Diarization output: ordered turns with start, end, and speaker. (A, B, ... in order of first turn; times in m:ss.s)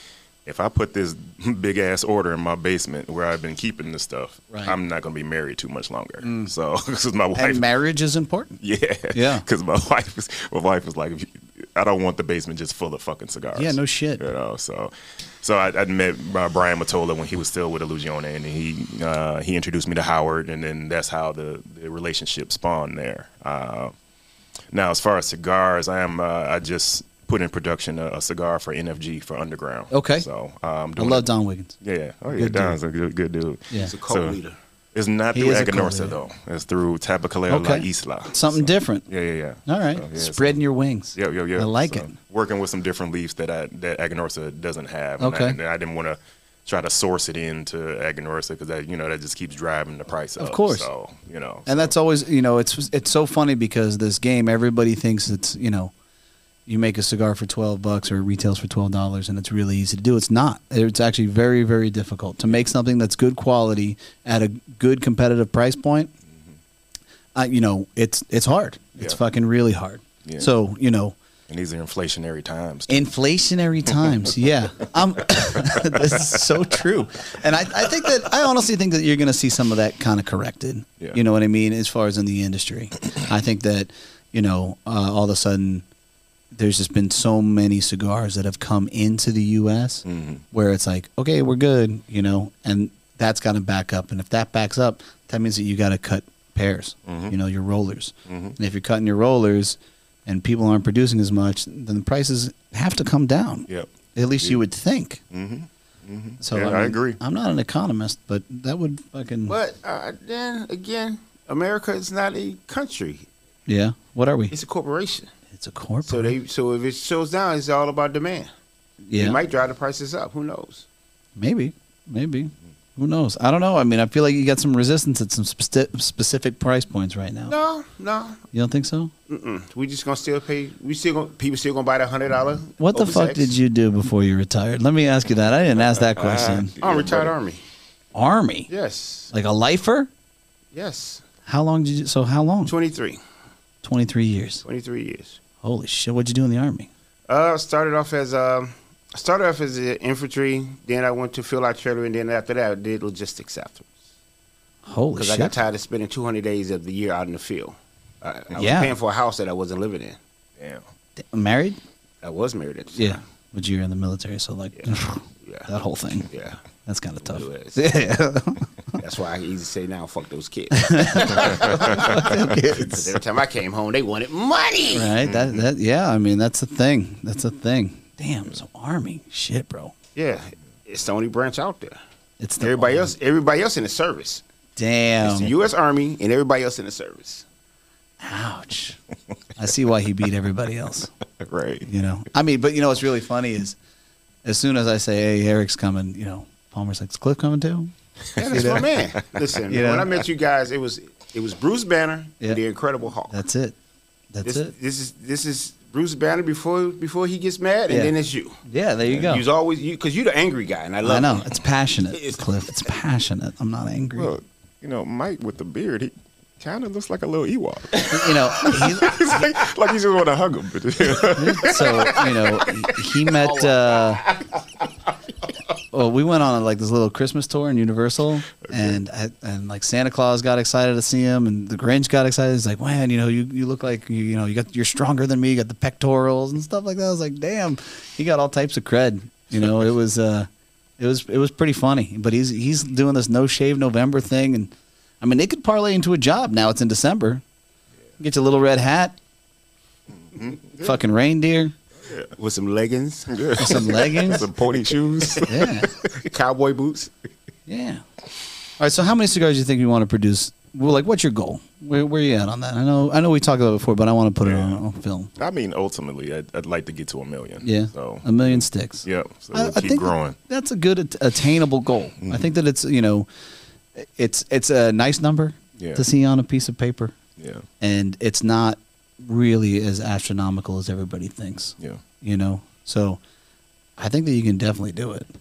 0:00.4-0:07.6 A
0:06.2-0:06.5 B
0:07.3-0:08.6 B
0:08.6-0:23.9 A
0:09.1-0:09.4 B
0:13.5-0:14.3 B
0:24.7-0:31.3 A
0:29.9-0:30.2 B
0:31.0-0:31.8 B
0:31.8-0:34.4 A
0:32.3-0:32.8 B
0:33.7-0:34.6 C
0:34.9-0:40.6 A
0:35.3-0:36.2 B
0:37.5-0:39.0 B
0:39.6-0:42.1 B
0:41.1-0:51.9 A
0:45.2-0:45.6 B
0:50.4-0:50.9 B
0:51.6-0:55.9 B
0:56.7-1:06.1 B
1:07.3-1:11.2 B
1:10.2-1:10.5 A
1:11.5-1:13.1 A
1:12.9-1:25.8 B
1:26.5-1:45.2 B
1:30.0-1:30.4 A
1:37.0-1:37.4 A
1:38.3-1:38.6 A
1:43.7-1:44.6 A
1:45.3-1:47.2 A
1:46.4-1:49.6 B
1:49.5-1:53.3 C
1:53.6-1:54.5 B
1:54.5-1:55.3 C
1:55.5-1:56.3 B
1:56.0-1:58.5 C
1:59.1-1:59.4 B
1:59.1-2:00.8 C
2:01.4-2:07.6 B
2:07.5-2:08.4 C
2:08.5-2:09.1 B
2:09.3-2:13.5 C
2:12.8-2:16.8 B
2:16.0-2:17.3 A
2:16.8-2:17.6 C
2:18.1-2:18.7 B
2:18.7-2:19.3 C
2:19.3-2:20.1 B
2:20.7-2:21.2 C
2:21.4-2:22.7 B
2:22.6-2:23.2 C
2:23.8-2:24.6 B
2:24.6-2:25.4 C
2:25.6-2:26.9 B
2:27.3-2:33.9 C
2:34.8-2:35.6 B
2:35.2-2:40.2 C
2:38.6-2:39.0 B
2:40.6-2:40.8 A
2:41.2-2:41.8 B
2:42.2-2:43.2 C
2:42.9-2:46.3 B
2:45.4-2:45.7 C
2:46.3-2:46.6 C
2:46.8-2:48.6 B
2:47.2-2:47.8 C
2:49.0-2:55.1 C
2:50.8-2:53.2 B
2:51.5-2:52.1 A
2:54.9-2:59.9 B
2:55.2-2:55.6 A
3:00.1-3:02.0 C
3:02.4-3:03.1 B
3:02.6-3:04.4 C
3:04.8-3:05.5 B
3:05.2-3:07.4 C
3:08.2-3:09.0 B
3:09.6-3:11.1 B
3:11.4-3:11.9 A
3:11.9-3:13.8 B
3:14.4-3:17.9 B
3:18.3-3:18.8 A
3:18.4-3:23.3 C
3:18.4-3:18.9 B
3:19.7-3:20.1 B
3:23.3-3:23.8 B
3:24.3-3:24.7 B
3:24.4-3:28.6 C
3:27.9-3:28.1 B
3:28.6-3:29.4 B
3:29.2-3:31.4 C
3:31.0-3:34.3 B
3:32.1-3:32.4 C
3:34.2-3:43.0 A
3:38.1-3:39.5 B
3:41.2-3:44.2 B
3:43.4-3:44.5 C
3:45.9-4:07.4 B
3:48.6-3:48.9 A
4:08.2-4:09.2 B
4:10.2-4:11.0 A
4:10.8-4:11.7 B
4:12.0-4:12.3 A
4:12.4-4:14.0 C
4:13.3-4:15.7 A
4:13.6-4:14.5 B
4:15.4-4:15.9 B
4:16.1-4:17.1 C
4:17.7-4:18.0 B
4:18.8-4:25.3 B
4:24.4-4:24.8 A
4:25.4-4:30.4 A
4:27.6-4:33.3 B
4:32.2-4:32.5 A
4:34.0-4:37.2 B
4:35.8-4:36.0 A
4:37.4-4:37.6 A
4:37.8-4:43.2 B
4:44.0-4:45.3 B